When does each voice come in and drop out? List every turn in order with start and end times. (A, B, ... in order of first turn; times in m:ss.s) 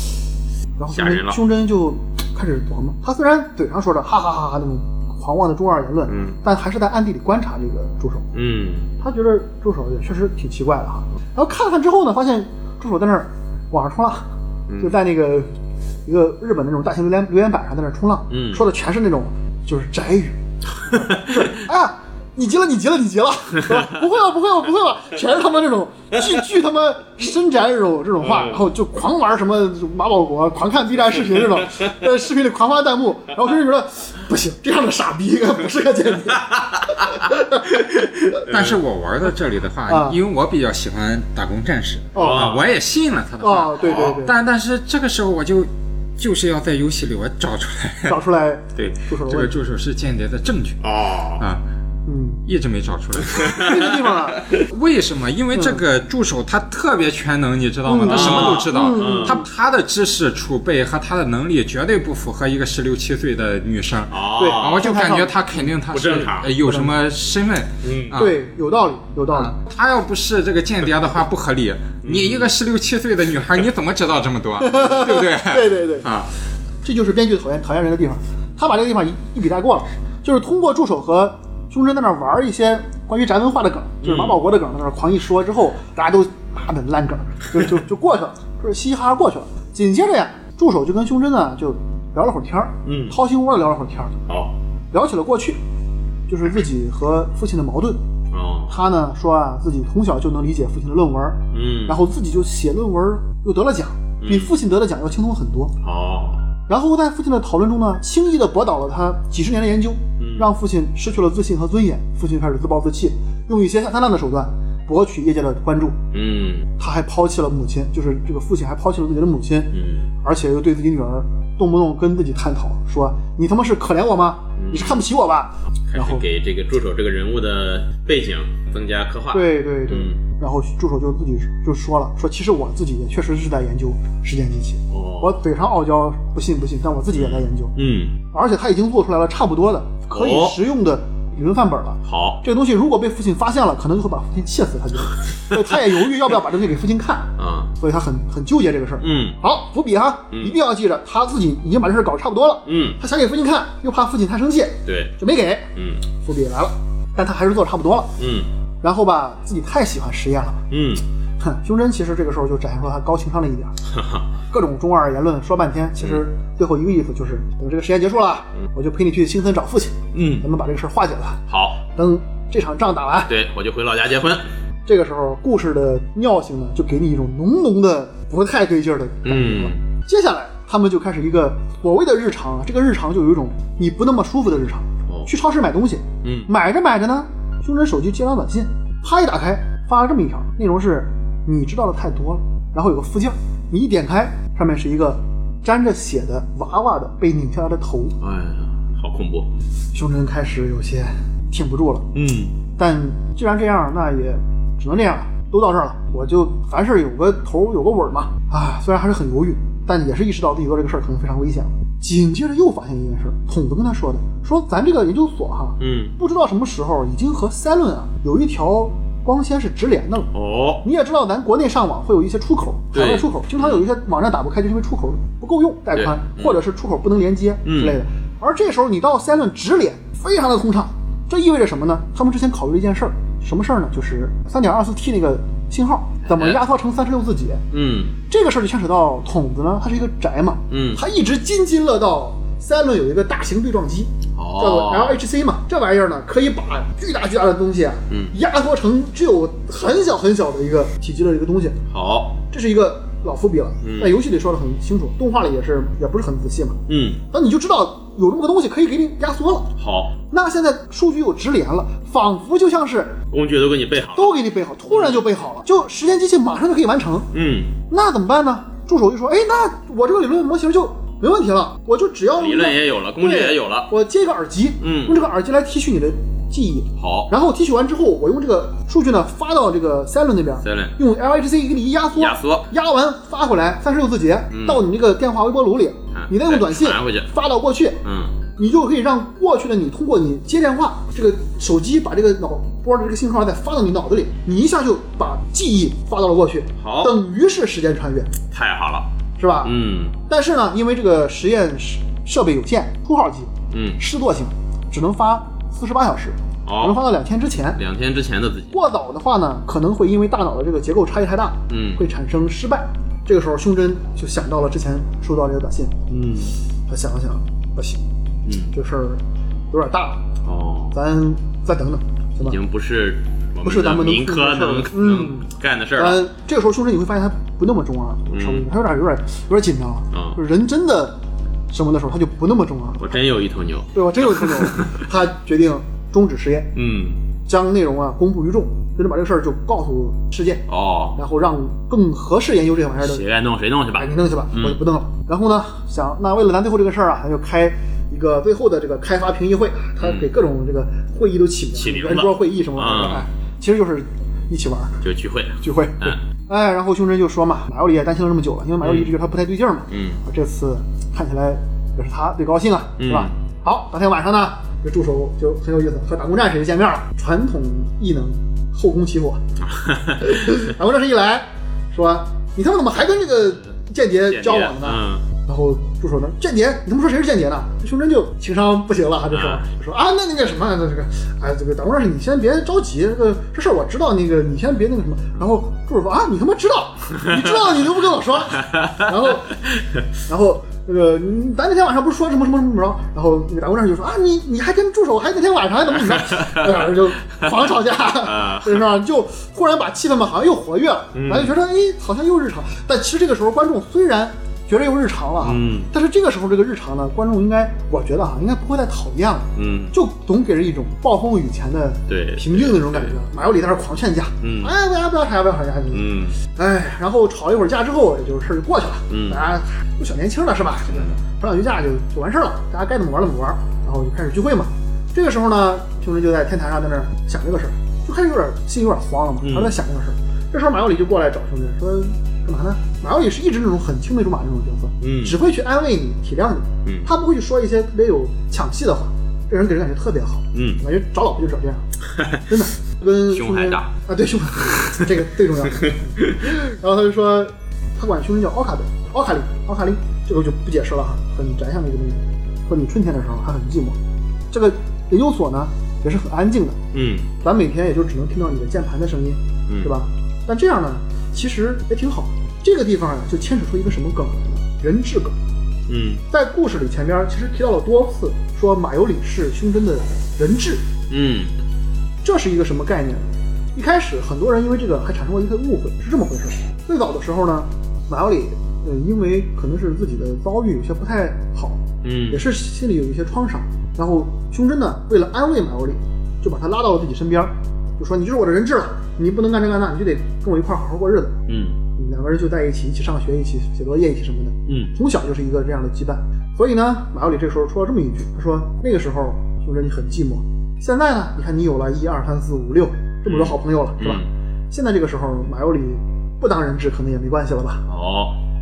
0:00.8-0:08.3 A
0:00.9-0:01.4 B
0:06.1-0:06.4 B
0:08.3-0:08.9 B
0:09.0-0:14.3 A
0:14.7-0:15.0 B
0:14.8-0:15.5 A
0:16.0-0:37.8 A
0:18.3-0:18.6 B
0:20.9-0:21.4 B
0:28.2-0:28.6 B
0:37.7-0:38.8 B
0:38.5-0:48.2 C
0:39.9-0:40.2 A
0:42.1-0:42.5 A
0:42.2-0:42.6 B
0:43.4-0:44.3 A
0:43.8-0:44.2 B
0:48.0-0:49.6 A
0:49.2-0:50.8 C
0:50.8-0:51.4 B
0:51.4-0:51.6 C
0:52.0-0:52.4 A
0:52.4-0:54.0 C
0:53.3-0:53.8 B
0:53.5-0:54.5 A
0:54.6-1:08.4 C
0:55.5-0:55.8 A
0:57.9-0:59.4 A
0:58.0-0:59.4 B
1:04.1-1:04.9 B
1:04.4-1:05.7 A
1:05.9-1:06.5 B
1:06.6-1:06.9 A
1:07.8-1:08.2 B
1:08.1-1:09.5 A
1:09.3-1:16.3 C
1:12.0-1:12.5 B
1:14.6-1:16.1 A
1:16.8-1:34.2 A
1:24.0-1:24.4 B
1:32.8-1:33.2 B
1:34.3-1:34.5 B
1:34.9-1:35.6 A
1:36.3-1:38.0 A
1:38.3-1:38.8 B
1:38.7-1:45.7 A
1:41.5-1:42.0 B
1:44.2-1:44.5 B
1:45.8-1:46.4 B
1:46.7-1:56.0 A
1:50.2-1:50.5 B
1:56.1-1:56.7 B
1:56.8-2:06.2 A
1:59.7-2:00.1 B
2:04.6-2:05.0 B
2:05.9-2:10.2 B
2:09.3-2:17.7 A
2:14.9-2:15.4 B
2:17.1-2:18.1 B
2:18.3-2:35.7 A
2:20.1-2:20.6 B
2:22.0-2:22.4 B
2:25.5-2:25.8 B
2:27.4-2:27.7 B
2:29.0-2:29.4 B
2:32.6-2:33.0 B
2:34.8-2:35.1 B
2:35.7-2:36.0 B
2:36.2-2:38.1 A
2:38.2-2:38.5 B
2:38.8-2:40.6 A
2:40.7-2:41.0 B
2:41.4-2:43.8 A
2:43.9-2:44.2 B
2:44.5-2:53.3 A
2:50.1-2:50.5 B
2:51.5-2:51.8 B
2:53.3-2:54.4 B
2:54.8-3:18.1 A
2:59.2-2:59.8 B
3:06.2-3:06.5 B
3:18.2-3:19.5 B
3:19.9-3:22.1 A
3:22.1-3:22.6 B
3:22.8-3:40.3 A
3:35.8-3:36.1 B
3:40.3-3:40.8 B
3:40.8-3:57.6 A
3:42.9-3:43.8 B
3:45.9-3:46.6 B
3:47.6-3:48.0 B
3:56.2-3:56.6 B
3:57.7-3:58.1 B
3:58.3-4:11.8 A
4:00.7-4:01.0 B
4:04.4-4:05.2 B
4:08.1-4:08.4 B
4:11.9-4:12.4 B
4:12.5-4:16.8 A
4:13.8-4:14.1 B
4:16.9-4:17.2 B
4:17.3-4:19.7 A
4:19.8-4:20.1 B
4:20.3-4:23.2 A
4:23.3-4:25.2 B
4:24.1-4:27.3 A
4:27.3-4:27.8 B
4:27.9-4:48.0 A
4:32.4-4:33.9 B
4:34.8-4:35.3 B
4:37.0-4:37.3 B
4:40.6-4:41.0 B
4:42.1-4:42.7 B
4:44.5-4:44.8 B
4:46.1-4:47.3 B
4:48.0-4:48.4 B
4:48.6-4:58.3 A
4:56.8-4:57.2 B
4:58.5-4:59.1 B
4:59.4-5:07.8 A
4:59.6-5:00.1 B
5:03.7-5:04.0 B
5:06.6-5:07.0 B
5:07.8-5:08.7 B
5:08.7-5:16.1 A
5:11.7-5:12.0 B
5:16.1-5:16.6 B
5:16.9-5:18.0 A
5:18.4-5:18.7 B
5:18.7-5:20.2 A
5:20.4-5:20.9 B
5:20.9-5:22.6 A
5:22.4-5:26.2 B
5:23.6-5:25.4 A
5:26.0-5:31.2 A
5:28.3-5:28.7 B
5:30.1-5:30.4 B
5:31.7-5:33.1 A
5:33.0-5:35.0 B
5:33.9-5:36.7 A
5:36.7-5:37.2 B
5:37.4-5:43.2 A
5:40.7-5:41.2 B
5:43.0-5:44.8 B
5:44.0-5:55.0 A
5:50.0-5:50.3 B
5:51.7-5:53.2 B
5:55.0-5:56.2 B
5:55.6-6:09.4 A
5:58.8-5:59.1 B
5:59.9-6:00.2 B
6:03.0-6:03.3 B
6:09.6-6:10.5 B
6:10.2-6:29.6 A
6:14.2-6:15.2 B
6:19.3-6:19.6 B
6:30.2-7:34.0 A
6:36.1-6:36.9 B
6:37.5-6:38.8 B
6:41.1-6:41.5 B
6:45.4-6:45.9 B
6:49.5-6:49.9 B
6:52.1-6:53.2 B
6:54.4-6:54.7 B
6:55.9-6:56.4 B
6:59.1-6:59.4 B
7:00.9-7:01.2 B
7:09.4-7:09.8 B
7:15.0-7:15.4 B
7:16.8-7:17.1 B
7:20.5-7:20.8 B
7:23.3-7:23.9 B
7:24.6-7:25.2 B
7:25.7-7:26.4 B
7:34.5-7:36.8 A
7:36.9-7:37.3 B
7:37.4-7:45.4 A
7:39.7-7:39.9 B
7:45.9-7:46.2 B
7:46.3-7:50.8 A
7:51.1-7:51.5 B
7:52.2-8:11.4 A
8:02.0-8:02.4 B
8:11.5-8:11.8 B
8:12.0-8:27.8 A
8:14.7-8:14.9 B
8:23.2-8:24.3 B
8:27.9-8:28.4 B